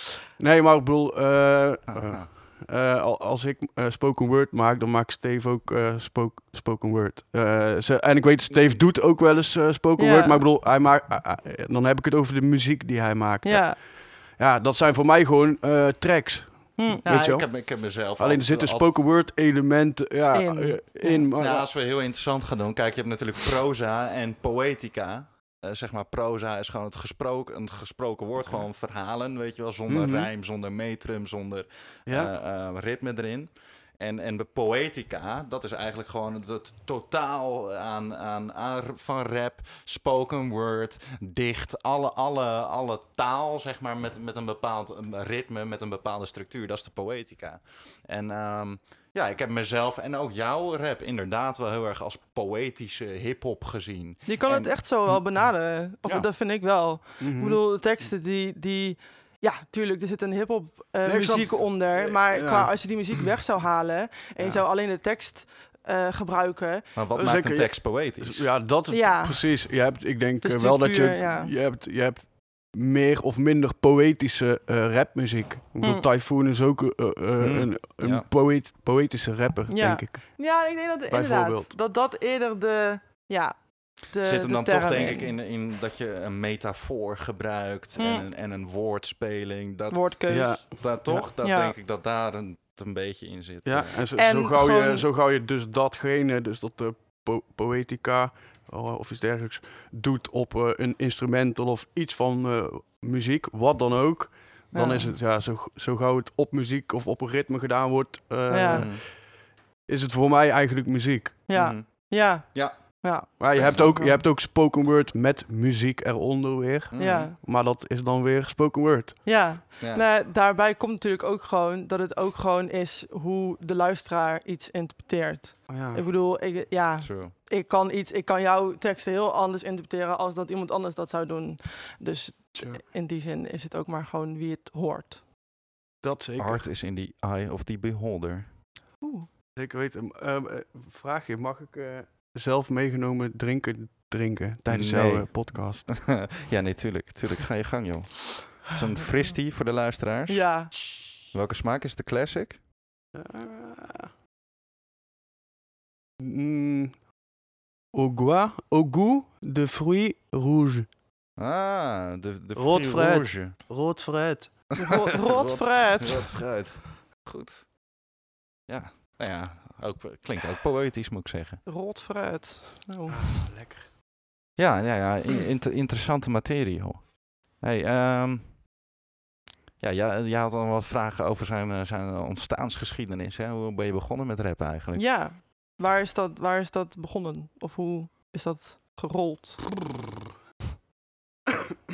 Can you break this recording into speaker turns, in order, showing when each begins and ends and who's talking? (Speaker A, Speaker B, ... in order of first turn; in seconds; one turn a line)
Speaker A: 0.4-21.7
Speaker B: 1.9-2.2
Speaker C: 10.0-10.4
Speaker C: 13.4-13.8
Speaker C: 16.8-17.4
Speaker B: 17.0-19.1
Speaker C: 20.3-21.3
Speaker B: 21.4-56.3
Speaker A: 29.9-30.3
Speaker A: 32.0-32.3
Speaker C: 54.2-66.8
Speaker A: 57.2-58.1
Speaker A: 61.0-63.2
Speaker B: 64.4-64.6
Speaker B: 66.9-68.5
Speaker A: 67.1-81.7
Speaker C: 68.9-71.5
Speaker C: 75.8-76.0
Speaker B: 77.4-78.3
Speaker C: 79.7-85.3
Speaker B: 84.2-94.0
Speaker C: 88.0-88.2
Speaker C: 89.9-90.8
Speaker A: 90.3-91.3
Speaker C: 91.4-91.7
Speaker A: 93.6-109.3
Speaker C: 94.2-95.0
Speaker C: 104.7-105.2
Speaker C: 108.5-108.8
Speaker B: 108.7-109.0
Speaker A: 109.8-111.5
Speaker C: 111.5-114.2
Speaker B: 111.5-113.9
Speaker A: 113.4-119.4
Speaker B: 116.9-117.3
Speaker C: 117.0-117.3
Speaker C: 119.2-135.2
Speaker B: 119.8-120.1
Speaker A: 125.7-126.0
Speaker B: 127.0-127.3
Speaker A: 132.6-132.8
Speaker A: 136.0-136.7
Speaker B: 136.4-138.6
Speaker C: 139.0-139.3
Speaker A: 139.5-146.3
Speaker B: 144.7-150.7
Speaker C: 150.3-151.0
Speaker B: 151.3-152.6
Speaker A: 153.1-154.1
Speaker A: 156.2-157.1
Speaker A: 157.9-160.9
Speaker B: 161.4-163.7
Speaker A: 162.5-164.8
Speaker C: 164.8-166.3
Speaker B: 164.8-167.7
Speaker B: 168.7-171.6
Speaker C: 171.7-173.4
Speaker A: 173.1-173.9
Speaker B: 174.6-178.6
Speaker B: 179.8-185.1
Speaker C: 184.9-189.8